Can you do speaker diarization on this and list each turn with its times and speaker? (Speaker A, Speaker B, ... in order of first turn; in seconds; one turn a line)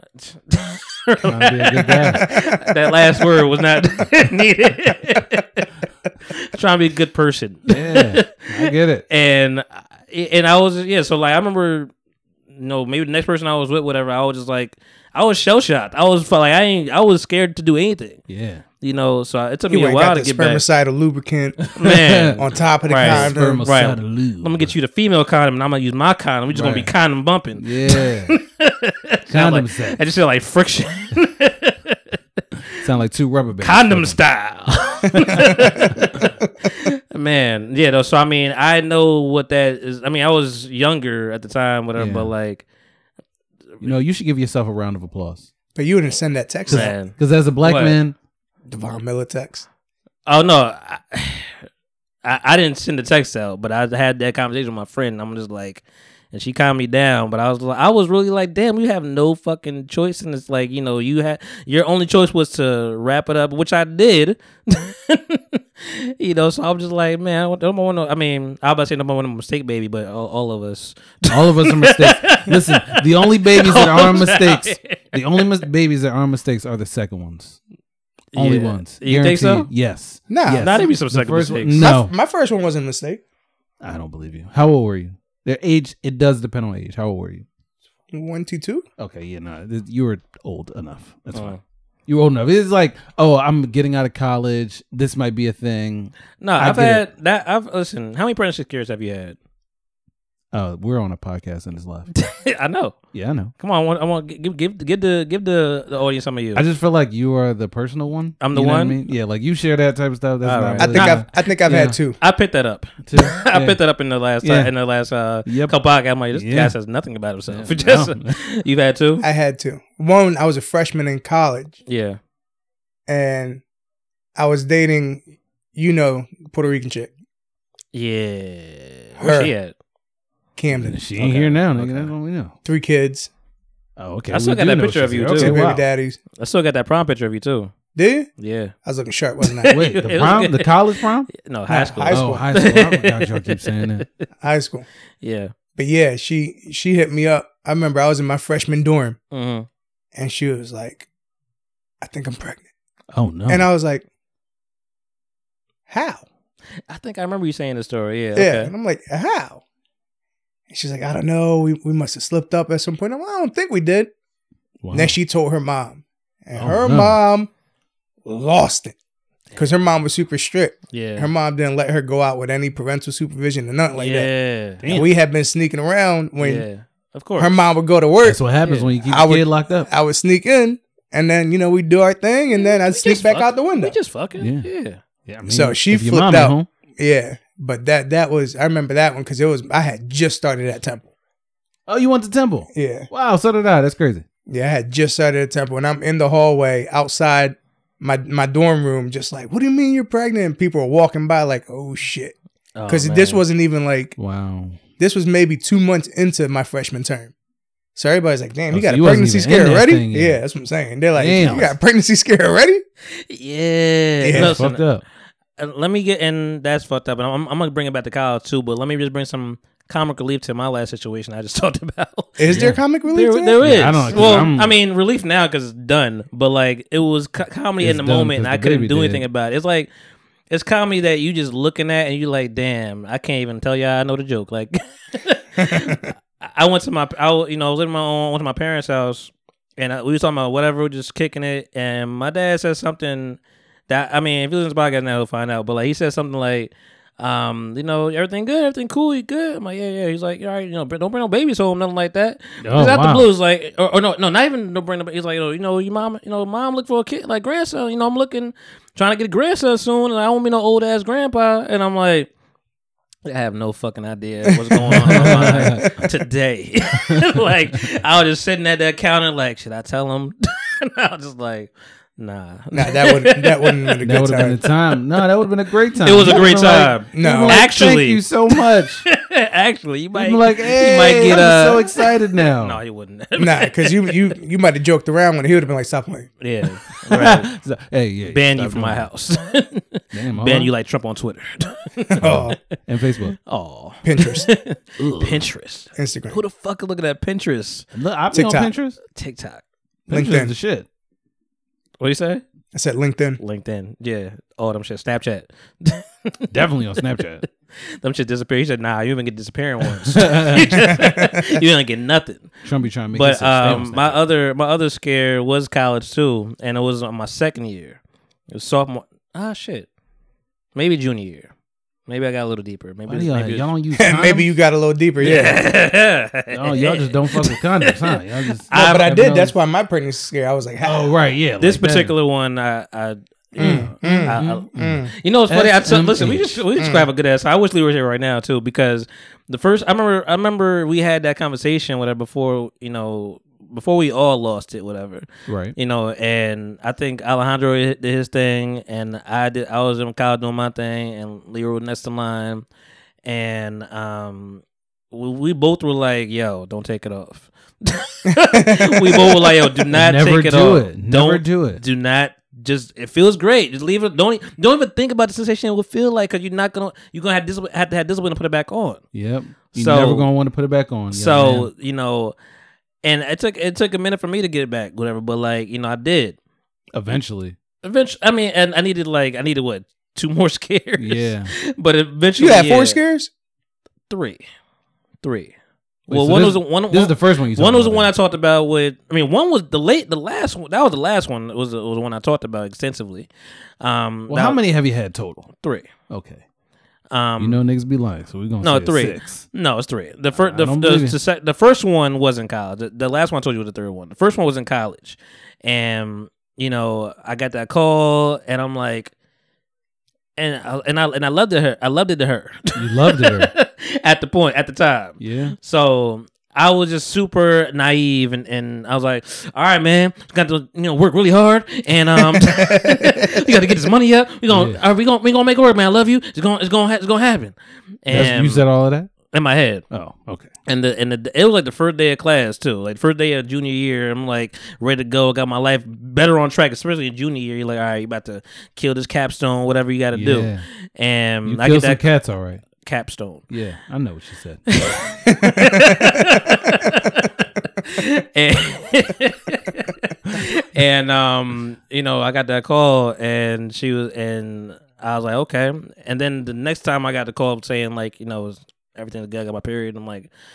Speaker A: 0.2-5.7
Speaker B: 1.3-2.2
Speaker C: 2.3-2.6
Speaker A: 6.3-11.9
Speaker B: 7.7-9.0
Speaker A: 12.5-18.2
Speaker B: 18.3-18.6
Speaker A: 18.8-20.6
Speaker C: 19.7-21.7
Speaker B: 21.6-22.4
Speaker A: 21.8-32.0
Speaker C: 22.3-23.6
Speaker B: 23.0-24.7
Speaker B: 26.5-26.9
Speaker B: 27.6-28.4
Speaker B: 29.3-30.0
Speaker B: 32.8-34.2
Speaker A: 33.6-42.6
Speaker B: 35.1-36.0
Speaker B: 42.0-42.3
Speaker B: 43.8-45.5
Speaker C: 45.8-46.9
Speaker A: 46.7-48.0
Speaker B: 46.7-48.1
Speaker C: 48.7-49.6
Speaker A: 50.2-51.6
Speaker A: 52.2-75.5
Speaker B: 71.3-77.6
Speaker A: 78.3-79.7
Speaker B: 78.3-82.1
Speaker C: 80.3-80.9
Speaker A: 80.6-81.9
Speaker C: 81.7-83.2
Speaker B: 83.8-87.4
Speaker C: 88.1-88.8
Speaker B: 89.0-91.5
Speaker A: 91.3-91.6
Speaker B: 92.1-97.1
Speaker A: 96.4-99.3
Speaker B: 100.5-102.1
Speaker A: 102.1-103.0
Speaker B: 103.1-103.5
Speaker A: 103.5-106.6
Speaker B: 106.5-112.0
Speaker A: 108.4-109.0
Speaker A: 110.4-111.2
Speaker C: 110.8-112.2
Speaker A: 112.2-119.2
Speaker B: 113.0-113.8
Speaker B: 114.4-114.7
Speaker B: 115.4-115.7
Speaker B: 116.3-116.7
Speaker B: 117.5-118.4
Speaker C: 119.2-121.8
Speaker A: 121.9-122.2
Speaker C: 123.1-123.6
Speaker C: 124.3-127.1
Speaker A: 127.9-129.7
Speaker C: 129.2-129.5
Speaker C: 130.6-131.1
Speaker B: 130.7-132.5
Speaker A: 131.2-132.1
Speaker C: 132.6-133.3
Speaker B: 134.0-135.8
Speaker A: 134.3-135.7
Speaker C: 135.3-136.2
Speaker A: 136.4-137.7
Speaker C: 137.9-138.3
Speaker A: 138.4-138.7
Speaker C: 138.8-139.8
Speaker A: 139.4-140.8
Speaker B: 139.7-141.3
Speaker A: 141.3-144.2
Speaker C: 141.7-142.5
Speaker B: 142.1-144.0
Speaker C: 144.4-144.8
Speaker A: 145.2-145.5
Speaker C: 145.8-149.2
Speaker A: 149.3-149.7
Speaker C: 150.1-151.1
Speaker C: 152.0-152.7
Speaker B: 153.1-153.7
Speaker C: 153.5-154.0
Speaker C: 155.9-156.2
Speaker A: 156.9-158.7
Speaker C: 158.3-159.6
Speaker C: 160.7-164.1
Speaker B: 164.8-165.1
Speaker C: 164.9-167.5
Speaker B: 166.6-167.2
Speaker C: 168.2-168.9
Speaker C: 169.5-174.3
Speaker A: 170.9-171.3
Speaker A: 173.9-175.0
Speaker B: 174.8-175.1
Speaker C: 174.9-176.7
Speaker A: 176.4-177.7
Speaker C: 177.4-178.4
Speaker B: 178.2-179.9
Speaker A: 178.6-178.9
Speaker C: 179.0-183.9
Speaker A: 182.5-185.0
Speaker B: 184.4-184.7
Speaker B: 185.2-186.7
Speaker C: 185.5-191.1
Speaker B: 191.9-194.2
Speaker C: 192.7-193.1
Speaker C: 194.5-202.3
Speaker A: 202.8-203.4
Speaker C: 202.9-204.2
Speaker B: 204.2-204.8
Speaker C: 205.0-207.3
Speaker C: 207.9-212.8
Speaker B: 208.7-210.4
Speaker B: 211.1-211.8
Speaker A: 213.2-214.8
Speaker C: 214.2-214.6
Speaker B: 214.3-215.0
Speaker A: 215.6-229.9
Speaker C: 222.4-224.4
Speaker B: 222.5-222.8
Speaker B: 223.6-224.7
Speaker B: 227.8-229.2
Speaker A: 230.5-262.3
Speaker C: 235.6-235.9
Speaker B: 252.6-253.3
Speaker A: 263.2-275.2
Speaker C: 264.7-266.1
Speaker B: 265.1-265.9
Speaker C: 272.7-274.6
Speaker B: 274.0-279.0
Speaker A: 276.0-284.3
Speaker C: 277.1-277.6
Speaker B: 280.1-282.8
Speaker C: 283.4-286.3
Speaker A: 286.4-287.5
Speaker B: 287.1-289.1
Speaker A: 288.3-292.5
Speaker B: 290.1-290.7
Speaker C: 292.2-292.6
Speaker B: 292.2-293.4
Speaker A: 293.4-297.9
Speaker C: 294.0-294.5
Speaker B: 295.0-295.4
Speaker C: 296.0-296.4
Speaker B: 297.9-299.0
Speaker C: 298.3-298.7
Speaker A: 299.1-299.6
Speaker B: 300.1-300.9
Speaker C: 300.1-300.5
Speaker A: 302.0-302.4
Speaker C: 302.7-303.4
Speaker A: 303.4-306.5
Speaker B: 306.5-307.4
Speaker A: 308.0-312.6
Speaker B: 310.1-310.7
Speaker C: 310.7-311.6
Speaker B: 312.6-314.2
Speaker A: 313.1-319.9
Speaker A: 320.7-321.5
Speaker A: 322.1-323.7
Speaker B: 323.1-324.5
Speaker C: 323.9-325.6
Speaker A: 325.2-329.1
Speaker B: 326.5-329.5
Speaker C: 328.7-331.1
Speaker B: 330.8-332.1
Speaker A: 331.6-352.6
Speaker C: 333.6-335.1
Speaker B: 333.6-336.6
Speaker C: 336.8-337.1
Speaker B: 345.5-345.7
Speaker A: 353.2-369.0
Speaker C: 358.3-359.6
Speaker B: 359.9-361.8
Speaker B: 369.1-371.7
Speaker A: 369.7-370.3
Speaker A: 371.1-372.4
Speaker A: 373.0-376.4
Speaker B: 376.9-377.6
Speaker A: 377.8-383.0
Speaker B: 381.0-381.5
Speaker C: 382.4-383.3
Speaker A: 384.1-384.4
Speaker A: 385.2-385.5
Speaker A: 386.1-393.3
Speaker B: 386.1-388.1
Speaker A: 393.8-394.6
Speaker B: 394.3-395.5
Speaker A: 395.6-395.9
Speaker B: 396.1-396.4
Speaker A: 397.1-397.6
Speaker B: 397.4-399.4
Speaker A: 398.6-409.1
Speaker B: 400.3-401.1
Speaker A: 410.4-428.6
Speaker B: 412.7-413.5
Speaker B: 415.2-415.5
Speaker C: 422.2-423.4
Speaker B: 424.5-424.8
Speaker B: 428.1-429.1
Speaker A: 429.3-429.8
Speaker B: 429.9-430.5
Speaker A: 430.6-442.0
Speaker B: 440.1-440.6
Speaker B: 441.4-442.6
Speaker A: 442.8-443.5
Speaker B: 443.5-444.7
Speaker A: 444.7-460.3
Speaker C: 445.3-446.2